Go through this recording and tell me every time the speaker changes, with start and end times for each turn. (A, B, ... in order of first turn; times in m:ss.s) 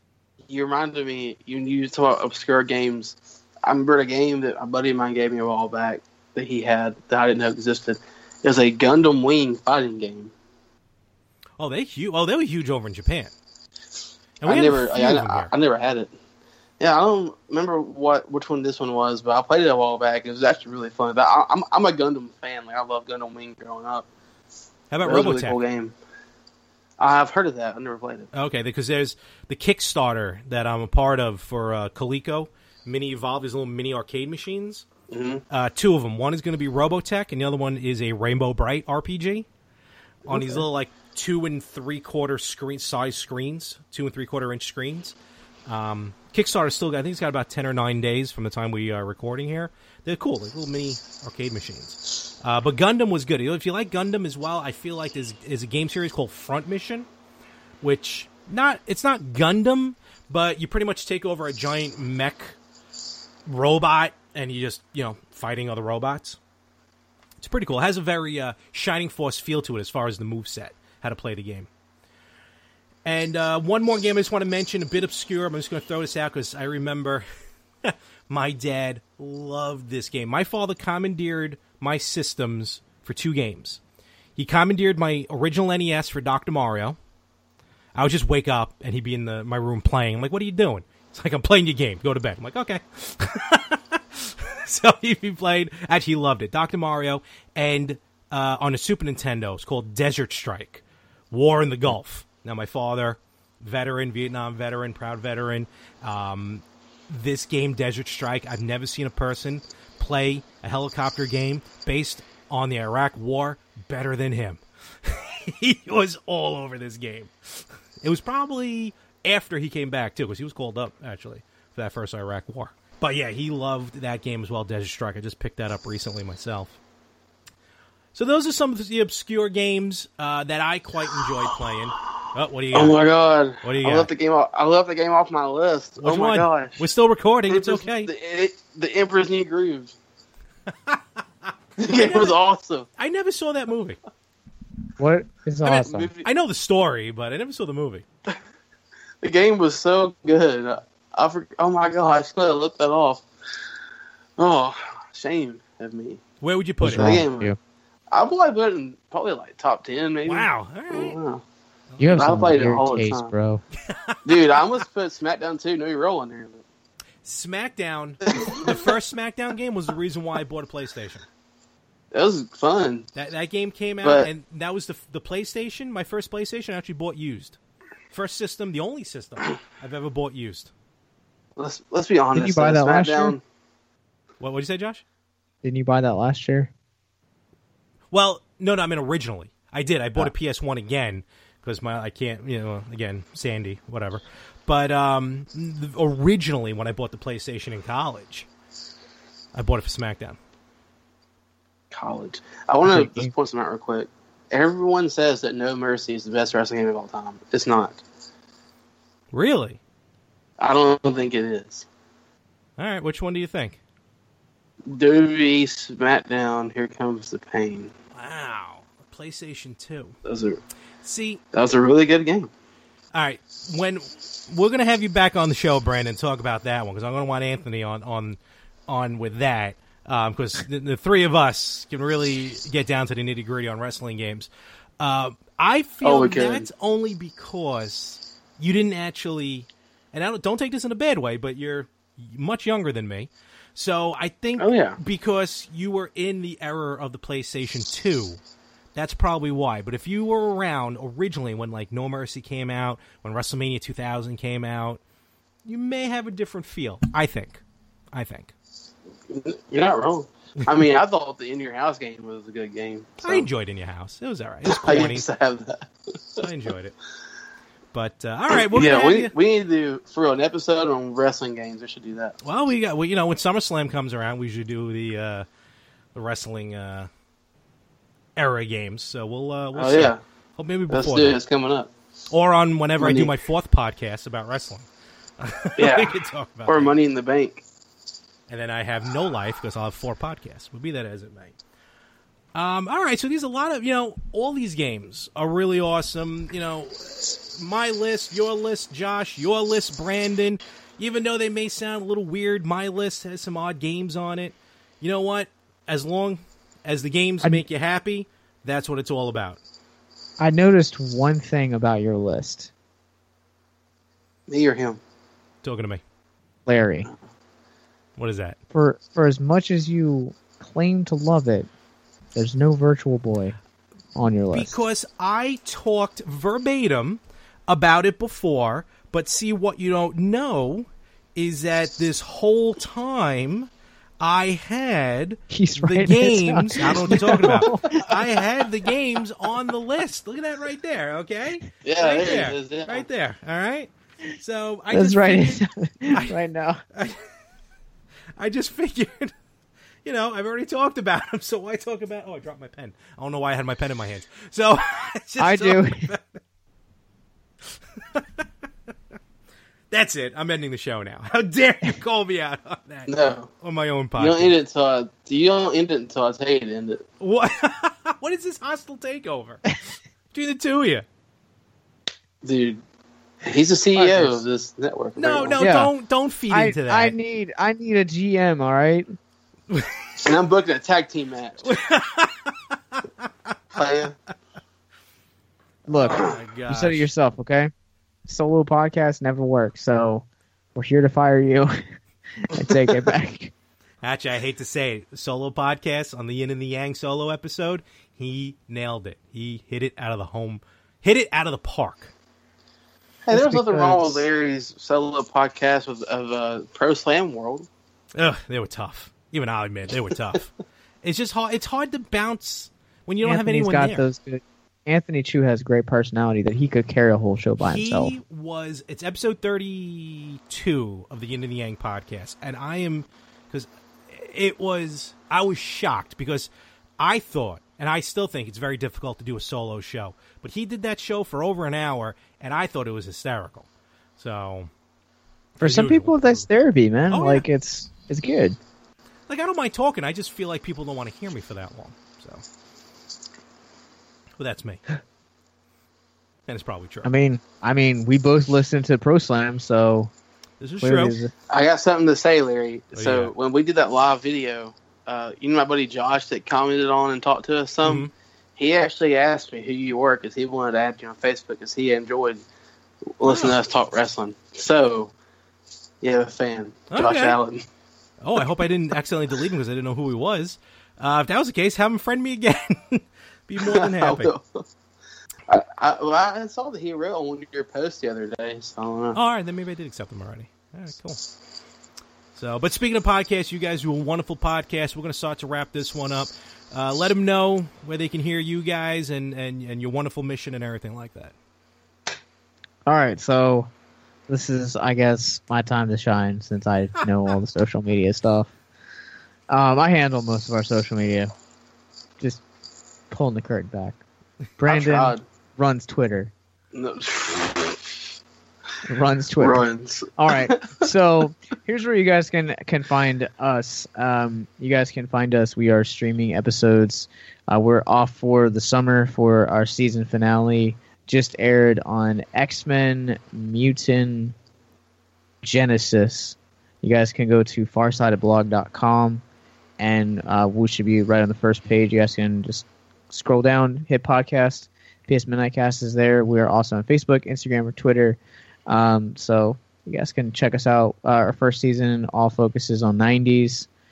0:00.5-0:10.3 A
0:11.6-0:13.3 B
0:14.4-0:15.5 B
0:14.4-0:16.1 A
0:16.8-0:24.1 A
0:24.9-0:25.6 B
0:25.0-0:26.0 A
0:27.0-0:28.3 A
0:28.3-0:34.9 B
0:35.1-0:35.4 A
0:35.5-0:39.5 B
0:40.3-0:57.1 B
0:40.3-0:40.6 A
0:57.8-1:02.6 B
1:03.5-1:06.4 B
1:07.4-1:11.7 B
1:13.0-1:17.3 B
1:17.8-1:23.8 B
1:24.4-1:27.0 B
1:28.0-2:06.8 B
2:08.1-2:13.0 B
2:12.7-2:16.8 A
2:13.6-2:14.1 B
2:16.0-2:18.1 B
2:17.5-2:19.9 A
2:20.7-2:22.4 B
2:21.8-2:22.9 A
2:23.0-2:24.0 B
2:25.0-2:26.1 C
2:25.6-2:28.0 B
2:25.7-2:26.3 A
2:29.2-2:33.2 A
2:34.4-2:36.2 A
2:36.4-2:37.2 B
2:36.8-2:37.6 C
2:36.9-2:37.5 A
2:38.1-2:41.4 A
2:40.3-2:41.2 B
2:41.9-2:42.2 B
2:42.0-2:43.6 C
2:42.2-2:43.3 A
2:43.8-2:44.7 B
2:44.2-2:46.6 A
2:47.2-2:51.3 B
2:48.3-2:48.8 A
2:52.1-2:53.1 A
2:53.2-2:57.6 B
2:54.0-2:54.3 A
2:58.1-3:00.7 B
3:01.6-3:03.4 A
3:02.3-3:03.4 C
3:04.4-3:05.0 B
3:05.6-3:06.7 C
3:08.1-3:18.5 B
3:19.5-3:20.4 B
3:21.9-3:28.0 A
3:22.8-3:23.3 C
3:29.3-3:29.8 B
3:30.6-3:31.9 A
3:32.8-3:33.8 B
3:34.9-3:37.9 A
3:38.1-3:40.2 B
3:40.2-3:40.6 A
3:41.0-3:41.4 B
3:41.5-3:42.5 A
3:43.1-4:08.4 B
3:56.0-3:56.7 A
4:04.6-4:05.0 A
4:09.0-4:15.0 B
4:15.6-4:18.5 B
4:19.3-4:23.5 A
4:23.2-4:25.3 B
4:24.7-4:25.8 A
4:26.4-4:27.0 B
4:27.9-4:29.3 B
4:28.7-4:32.4 A
4:32.4-4:35.5 B
4:36.2-4:37.1 B
4:38.4-4:41.4 B
4:39.8-4:40.2 A
4:40.9-4:41.9 A
4:42.3-4:44.9 B
4:43.0-4:43.3 A
4:45.4-4:47.0 B
4:45.8-4:46.1 A
4:46.7-4:47.6 A
4:48.5-4:51.6 B
4:52.5-5:09.6 B
5:10.4-5:12.7 C
5:14.5-5:15.0 A
5:15.6-5:16.0 B
5:16.7-5:17.1 C
5:18.2-5:18.6 B
5:18.7-5:21.7 C
5:22.4-5:23.6 C
5:24.2-5:24.8 C
5:24.5-5:46.4 B
5:35.5-5:38.0 C
5:41.8-5:43.1 A
5:44.9-5:46.8 C
5:46.9-5:47.3 B
5:48.4-5:49.3 B
5:50.0-5:56.4 B
5:55.4-5:56.1 C
5:57.6-5:58.5 B
5:59.9-6:04.6 B
6:03.1-6:03.5 A
6:04.2-6:07.0 A
6:07.2-6:09.7 B
6:10.3-6:11.1 B
6:12.4-6:12.8 A
6:13.4-6:15.6 A
6:14.0-6:14.3 C
6:15.2-6:17.2 B
6:15.6-6:15.9 C
6:16.5-6:19.1 C
6:19.7-6:20.2 B
6:20.2-6:21.7 A
6:21.6-6:23.5 B
6:23.8-6:24.2 A
6:25.9-6:27.7 C
6:25.9-6:27.1 B
6:28.3-6:31.8 C
6:32.5-6:33.5 C
6:34.0-6:42.1 B
6:43.3-6:47.7 A
6:43.3-6:44.2 C
6:48.2-6:50.5 B
6:51.0-6:54.0 B
6:53.2-6:58.2 C
6:57.6-7:13.7 B
7:14.2-7:14.7 B
7:15.6-7:16.5 B
7:15.6-7:18.6 C
7:17.1-7:17.5 B
7:19.3-7:22.4 B
7:24.4-7:24.8 B
7:26.5-7:27.1 B
7:27.0-7:30.1 C
7:30.6-7:31.2 B
7:30.8-7:31.3 C
7:31.5-7:42.4 A
7:33.0-7:33.3 B
7:37.8-7:38.1 B
7:43.2-7:45.1 A
7:43.2-7:43.6 B
7:46.0-7:47.6 A
7:46.9-7:47.4 B
7:48.2-7:54.3 B
7:53.6-7:54.6 A
7:55.5-7:59.2 A
7:59.1-8:01.2 B
8:02.3-8:11.4 B
8:12.9-8:13.7 C
8:14.3-8:18.5 C
8:19.5-8:21.3 C
8:23.1-8:24.0 C
8:24.6-8:26.3 C
8:24.7-8:25.2 A
8:26.7-8:28.0 A
8:28.9-8:29.6 C
8:29.4-8:30.9 A
8:30.2-8:44.4 C
8:45.4-8:49.2 C
8:49.8-9:03.7 C